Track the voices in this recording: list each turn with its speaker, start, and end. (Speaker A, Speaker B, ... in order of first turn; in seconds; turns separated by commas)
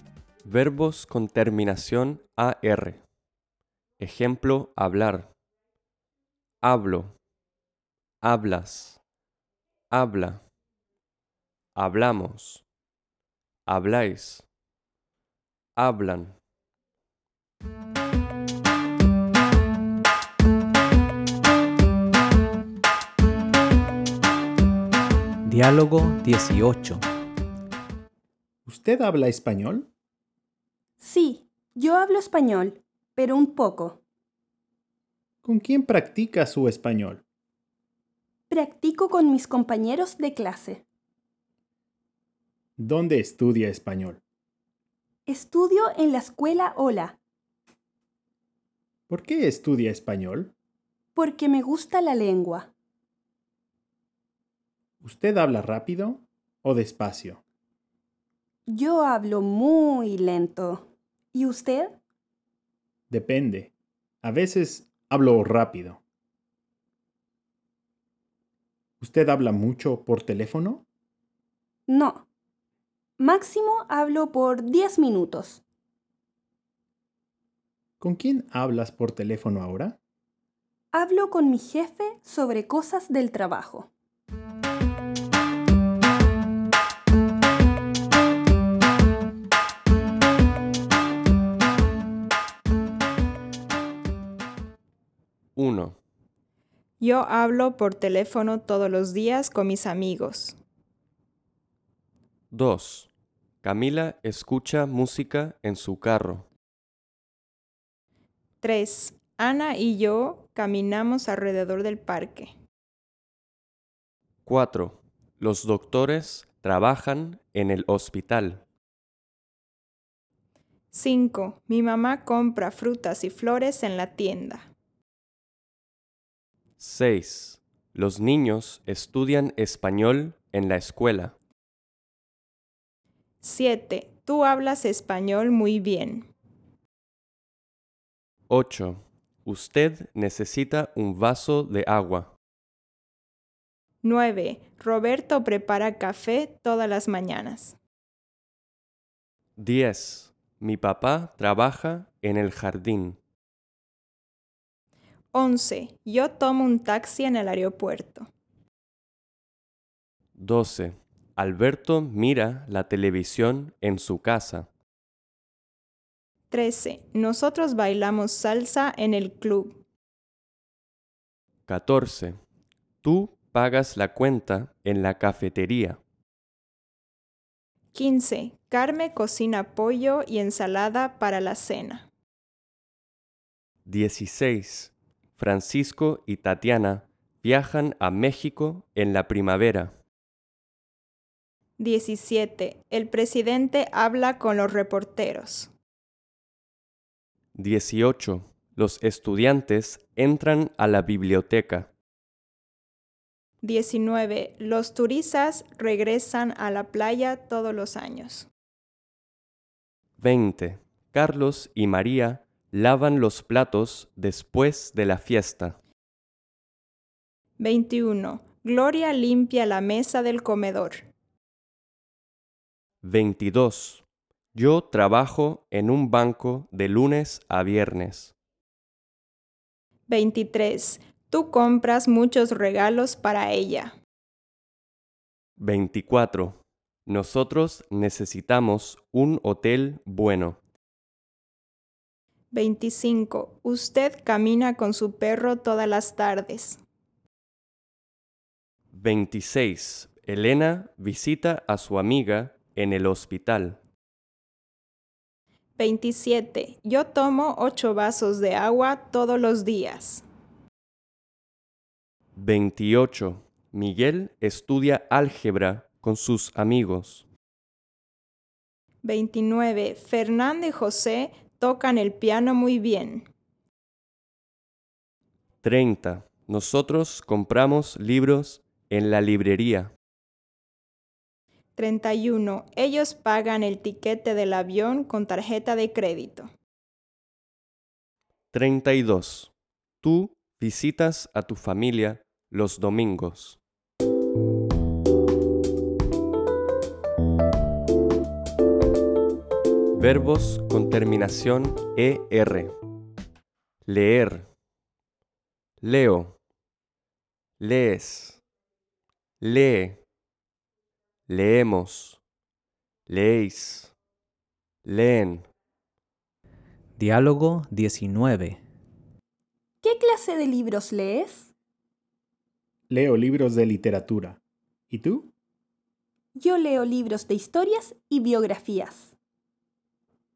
Speaker A: 0.4-3.0, Speaker A: 4.0-5.3, Speaker A: 6.6-7.1, Speaker A: 8.2-9.0, Speaker A: 9.9-10.4, Speaker A: 11.8-12.6, Speaker A: 13.7-14.4, Speaker A: 15.8-16.3, Speaker B: 25.4-27.1, Speaker C: 28.6-29.9, Speaker D: 31.0-34.0, Speaker C: 35.4-37.2, Speaker D: 38.5-40.8, Speaker C: 42.8-44.2, Speaker D: 45.3-47.2, Speaker C: 49.1-50.5, Speaker D: 51.1-52.7, Speaker C: 55.0-57.4, Speaker D: 58.7-62.0, Speaker C: 63.1-63.7, Speaker C: 64.2-66.0, Speaker C: 69.0-70.8, Speaker D: 71.9-72.2, Speaker D: 73.2-75.6, Speaker C: 78.0-80.0, Speaker D: 80.9-83.9, Speaker A: 95.5-96.0, Speaker E: 97.0-100.6, Speaker A: 102.5-103.1, Speaker A: 103.6-106.5, Speaker E: 108.6-112.5, Speaker A: 114.5-118.6, Speaker E: 120.9-124.7, Speaker A: 126.8-131.3, Speaker E: 133.4-136.3, Speaker A: 138.5-142.3, Speaker E: 144.0-147.8, Speaker A: 149.6-153.2, Speaker E: 155.3-158.3, Speaker A: 160.4-164.7, Speaker E: 166.5-169.8, Speaker A: 171.7-172.4, Speaker A: 173.0-176.0, Speaker E: 177.9-182.1, Speaker A: 183.8-189.9, Speaker E: 191.8-195.7, Speaker A: 197.5-201.9, Speaker E: 203.6-208.5, Speaker A: 210.2-215.8, Speaker E: 217.6-221.1, Speaker A: 223.0-228.3, Speaker E: 230.1-233.9, Speaker A: 235.6-240.6, Speaker E: 242.5-246.8, Speaker A: 248.9-253.8, Speaker E: 255.8-260.2, Speaker A: 262.4-267.2, Speaker E: 269.0-273.3, Speaker A: 275.6-279.9, Speaker E: 281.8-286.5, Speaker A: 288.5-293.6, Speaker A: 299.9-302.8, Speaker A: 303.8-304.5, Speaker A: 305.8-306.4, Speaker A: 307.6-308.4, Speaker A: 309.4-310.0, Speaker A: 311.3-312.2, Speaker A: 313.1-313.9, Speaker A: 314.8-315.5, Speaker B: 317.0-318.6, Speaker D: 319.8-321.5, Speaker C: 322.9-324.4, Speaker C: 324.9-325.3, Speaker D: 326.4-329.1